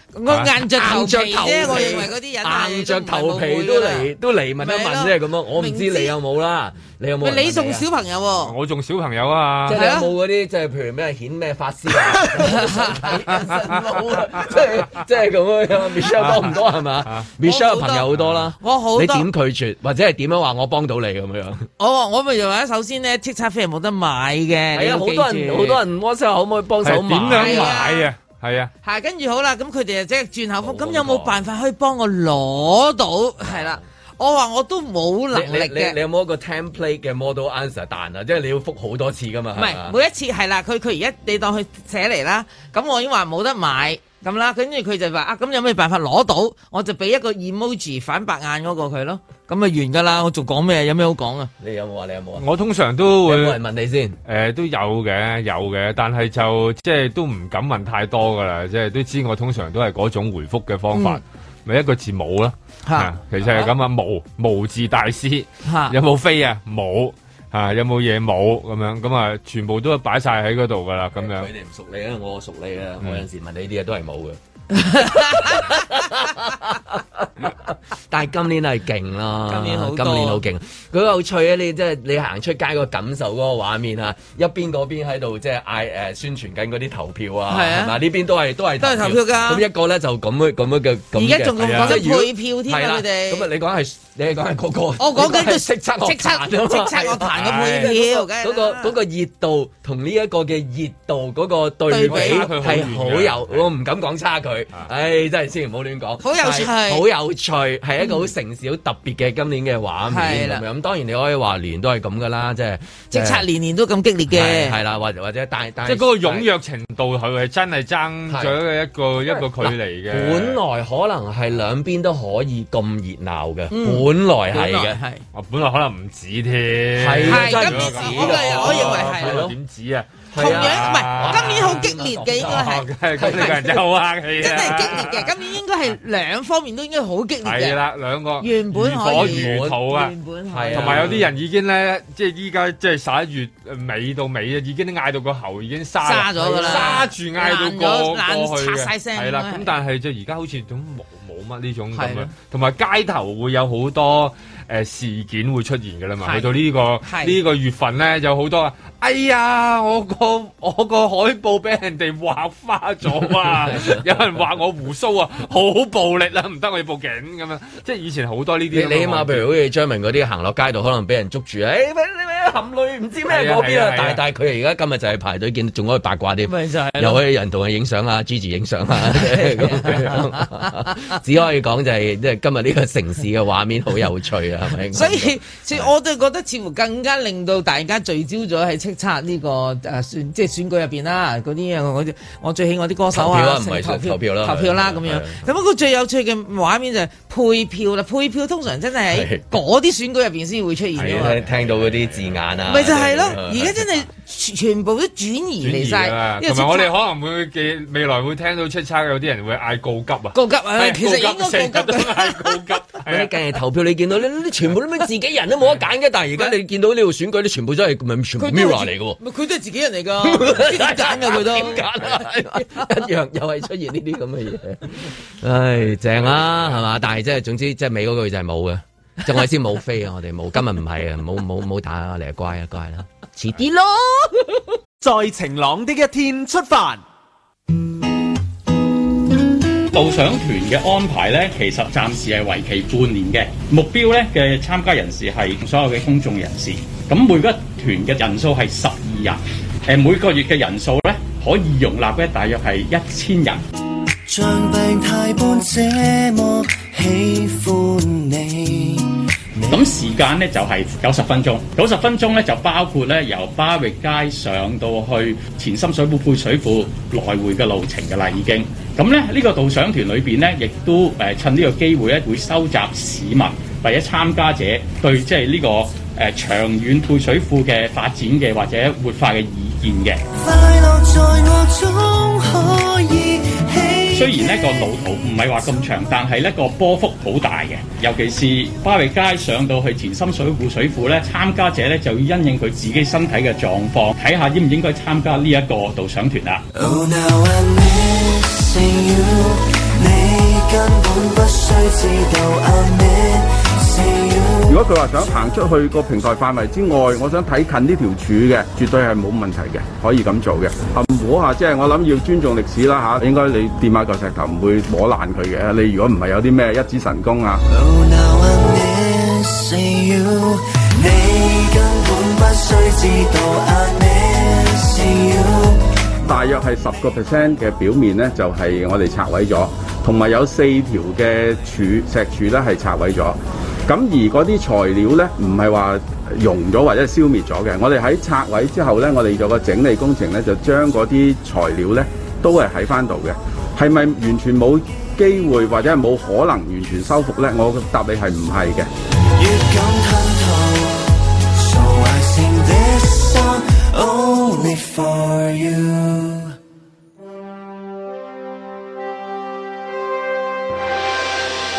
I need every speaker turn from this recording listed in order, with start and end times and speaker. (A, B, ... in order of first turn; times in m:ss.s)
0:00.1-0:06.2 A
0:00.6-0:07.9 B
0:07.2-0:08.6 A
0:08.4-0:09.8 C
0:09.6-0:21.7 B
0:09.7-0:10.1 A
0:12.4-0:13.0 A
0:13.4-0:14.4 C
0:16.1-0:17.3 C
0:17.4-0:18.1 A
0:18.1-0:18.4 C
0:18.6-0:19.3 A
0:21.8-0:25.8 A
0:24.7-0:27.8 B
0:26.8-0:28.7 C
0:27.3-0:28.1 A
0:28.8-0:36.0 A
0:30.6-0:31.4 B
0:33.4-0:33.8 B
0:35.3-0:40.0 B
0:39.6-0:51.5 A
0:51.6-0:52.4 B
0:52.4-0:53.6 C
0:53.0-0:54.2 B
0:54.2-1:11.5 C
1:00.9-1:01.2 A
1:02.8-1:03.7 A
1:05.6-1:05.9 A
1:11.2-1:53.4 B
1:14.7-1:15.5 A
1:19.5-1:20.4 A
1:27.5-1:28.0 A
1:28.8-1:29.6 A
1:31.1-1:33.5 A
1:31.6-1:32.0 C
1:35.0-1:38.9 A
1:37.3-1:37.9 C
1:41.9-1:42.8 A
1:42.0-1:43.7 C
1:46.2-1:47.0 A
1:48.0-1:48.2 A
1:50.1-1:50.6 A
1:53.1-1:54.8 A
1:54.3-1:56.5 B
1:55.8-2:00.6 C
1:58.3-1:58.6 B
1:59.2-2:05.0 B
2:03.7-2:05.2 A
2:05.3-2:15.3 C
2:06.9-2:09.6 B
2:07.2-2:09.5 A
2:10.3-2:13.8 B
2:10.3-2:13.7 A
2:14.4-2:17.8 A
2:17.4-2:20.1 C
2:18.4-2:21.2 A
2:19.1-2:19.9 B
2:20.5-2:21.3 B
2:20.7-2:49.5 C
2:26.0-2:29.7 A
2:26.5-2:27.1 B
2:31.9-2:32.3 A
2:36.2-2:37.4 A
2:43.6-2:44.0 B
2:48.7-3:05.9 B
2:53.2-2:54.2 C
2:56.4-2:57.2 A
2:59.1-3:00.7 A
3:04.9-3:21.4 A
3:13.1-3:15.5 B
3:19.1-3:19.4 B
3:21.0-3:22.4 C
3:21.0-3:23.8 B
3:22.7-3:26.9 A
3:25.6-3:33.4 C
3:30.3-3:32.6 A
3:33.0-3:39.2 B
3:38.4-3:41.9 A
3:40.2-3:54.6 B
3:46.0-3:46.8 C
3:55.0-3:57.0 D
3:59.9-4:13.6 E
4:14.3-4:19.9 F
4:19.7-4:40.2 E
4:40.3-4:44.8 F
4:44.1-4:56.6 E
4:56.7-5:04.8 F
5:04.7-5:17.6 G
5:17.7-5:25.8 F
5:26.3-5:48.9 G
5:49.3-5:56.5 F